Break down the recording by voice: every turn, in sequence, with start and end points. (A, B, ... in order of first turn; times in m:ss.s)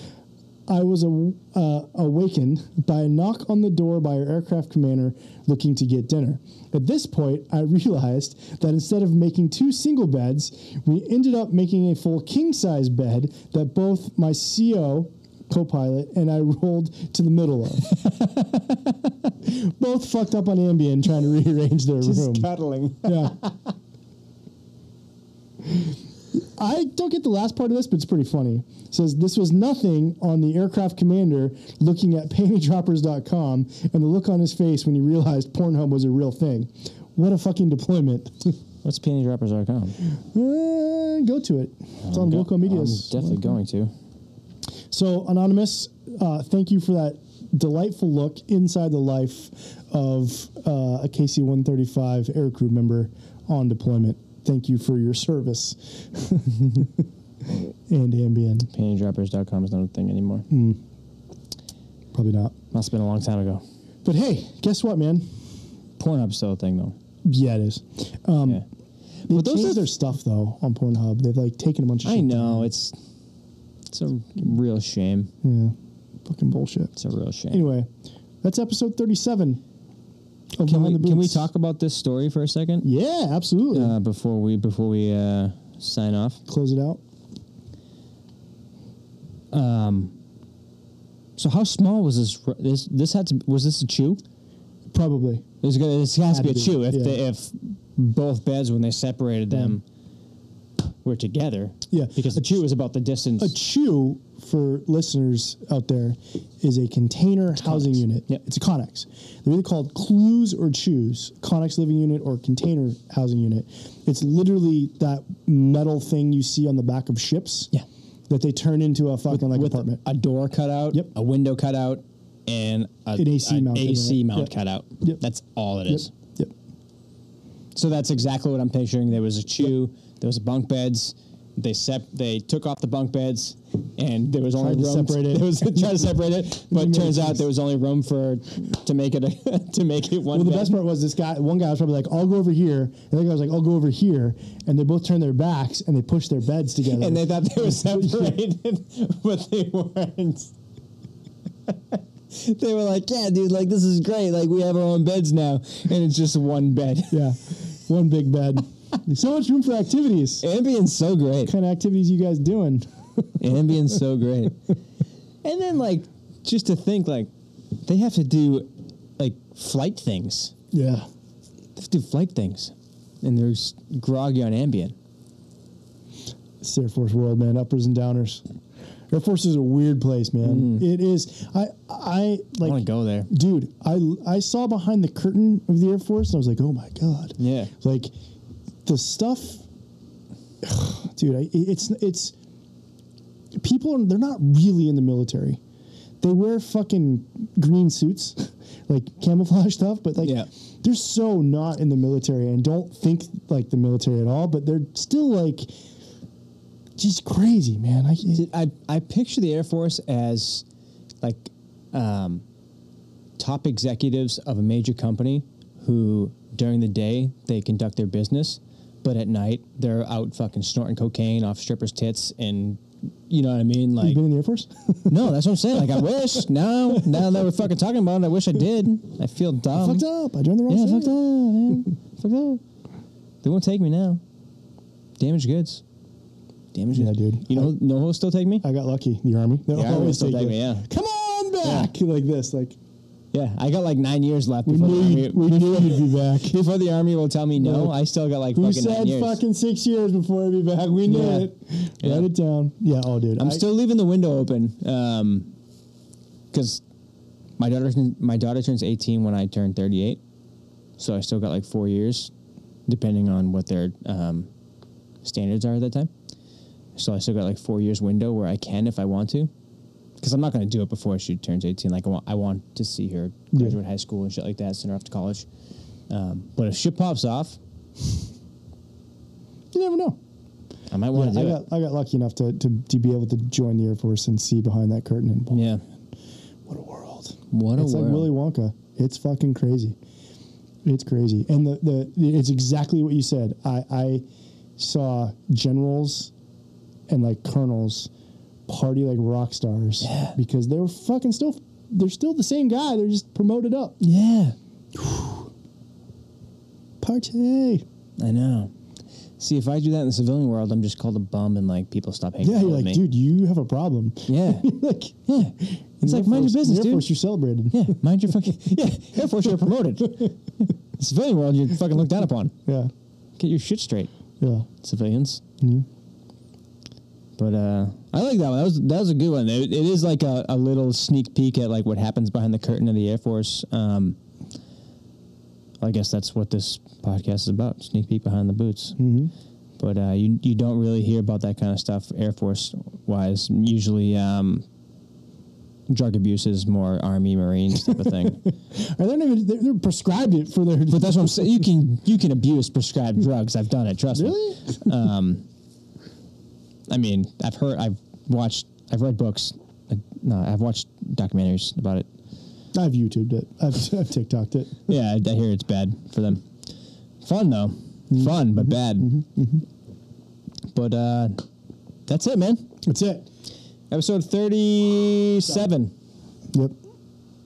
0:00.7-0:18.0 A
0:18.0-0:18.4 B
0:19.4-0:22.5 A
0:22.0-0:23.6 B
0:23.0-0:23.4 A
0:25.6-0:38.6 A
0:38.8-0:40.0 B
0:40.1-0:43.5 A
0:42.0-0:43.9 B
0:44.9-0:58.7 A
0:58.7-1:00.5 B
1:00.5-1:00.8 A
1:02.1-1:02.6 A
1:02.7-1:03.6 B
1:04.0-1:05.3 A
1:06.0-1:07.0 B
1:07.2-1:08.6 A
1:09.2-1:09.9 B
1:09.3-1:12.7 A
1:12.0-1:13.0 B
1:13.9-1:15.3 B
1:15.4-1:16.9 A
1:17.0-1:17.6 B
1:17.5-1:17.9 A
1:18.4-1:19.6 A
1:20.6-1:21.5 A
1:20.6-1:22.9 B
1:22.8-1:23.9 A
1:23.7-1:26.4 B
1:26.5-1:27.0 A
1:29.5-1:30.2 B
1:31.4-1:34.2 B
1:34.9-1:35.4 A
1:35.6-1:39.8 B
1:36.3-1:37.2 A
1:41.0-1:43.6 B
1:41.9-1:42.6 A
1:43.4-1:57.7 A
1:47.6-1:48.4 B
1:58.3-2:00.0 A
1:59.3-2:06.1 B
2:03.2-2:05.2 A
2:05.8-2:06.5 A
2:07.7-2:20.8 B
2:14.6-2:17.4 A
2:20.3-2:28.4 A
2:26.9-2:30.5 B
2:31.7-2:37.3 B
2:37.1-2:40.4 A
2:40.4-2:41.5 B
2:41.4-2:44.0 A
2:43.4-2:44.7 B
2:45.4-2:47.3 B
2:47.8-2:50.5 B
2:50.7-2:51.1 A
2:51.8-2:54.9 B
2:56.6-2:58.4 A
2:59.1-3:08.1 A
3:00.4-3:00.9 B
3:02.6-3:03.3 B
3:07.4-3:07.7 B
3:08.8-3:09.6 A
3:10.6-3:12.3 A
3:13.6-3:15.6 A
3:16.2-3:25.7 A
3:20.2-3:20.5 B
3:27.0-3:28.5 A
3:28.3-3:30.6 B
3:31.2-3:32.4 B
3:33.4-3:44.2 B
3:44.0-3:46.1 A
3:45.1-3:50.0 B
3:46.9-3:47.3 A
3:49.7-3:51.9 A
3:50.7-3:52.6 B
3:53.4-3:54.2 B
3:55.2-3:55.8 B
3:56.7-3:58.6 B
3:56.9-3:57.7 A
3:58.6-4:02.8 A
3:59.7-4:00.9 B
4:01.6-4:01.9 B
4:03.3-4:09.4 B
4:04.6-4:06.6 A
4:07.6-4:08.0 A
4:08.5-4:13.6 A
4:11.0-4:11.5 B
4:12.0-4:12.3 B
4:13.4-4:15.5 B
4:16.5-4:16.8 B
4:17.6-4:20.2 B
4:21.0-4:22.3 B
4:22.9-4:24.5 B
4:25.2-4:26.1 B
4:27.0-4:29.5 B
4:30.2-4:35.5 B
4:33.5-4:33.8 A
4:36.1-4:37.6 B
4:39.7-4:40.2 A
4:40.9-4:41.6 B
4:41.1-4:45.6 A
4:45.5-4:45.8 B
4:46.7-4:50.0 A
4:47.5-4:48.3 B
4:50.8-4:54.2 A
4:54.8-4:56.3 A
4:57.1-4:58.1 A
4:58.7-5:04.0 A
5:00.0-5:00.4 B
5:04.0-5:04.6 B
5:04.9-5:05.5 A
5:07.0-5:07.8 A
5:08.2-5:08.7 B
5:09.4-5:13.0 B
5:12.4-5:18.0 A
5:14.3-5:14.7 B
5:15.3-5:17.1 B
5:17.7-5:22.5 B
5:22.6-5:22.9 A
5:23.4-5:24.1 B
5:24.4-5:24.7 A
5:24.8-5:25.4 B
5:25.6-5:25.8 A
5:27.4-5:34.2 B
5:35.8-5:39.0 B
5:39.0-5:39.3 A
5:39.8-5:44.6 B
5:45.9-5:48.4 B
5:47.9-5:51.7 A
5:50.9-5:55.4 B
5:54.1-5:54.9 A
5:56.9-6:02.1 B
6:02.7-6:04.8 A
6:04.9-6:06.5 B
6:07.2-6:09.2 B
6:08.2-6:09.6 A
6:10.7-6:11.4 B
6:12.1-6:12.7 B
6:12.8-6:13.3 A
6:13.9-6:15.9 B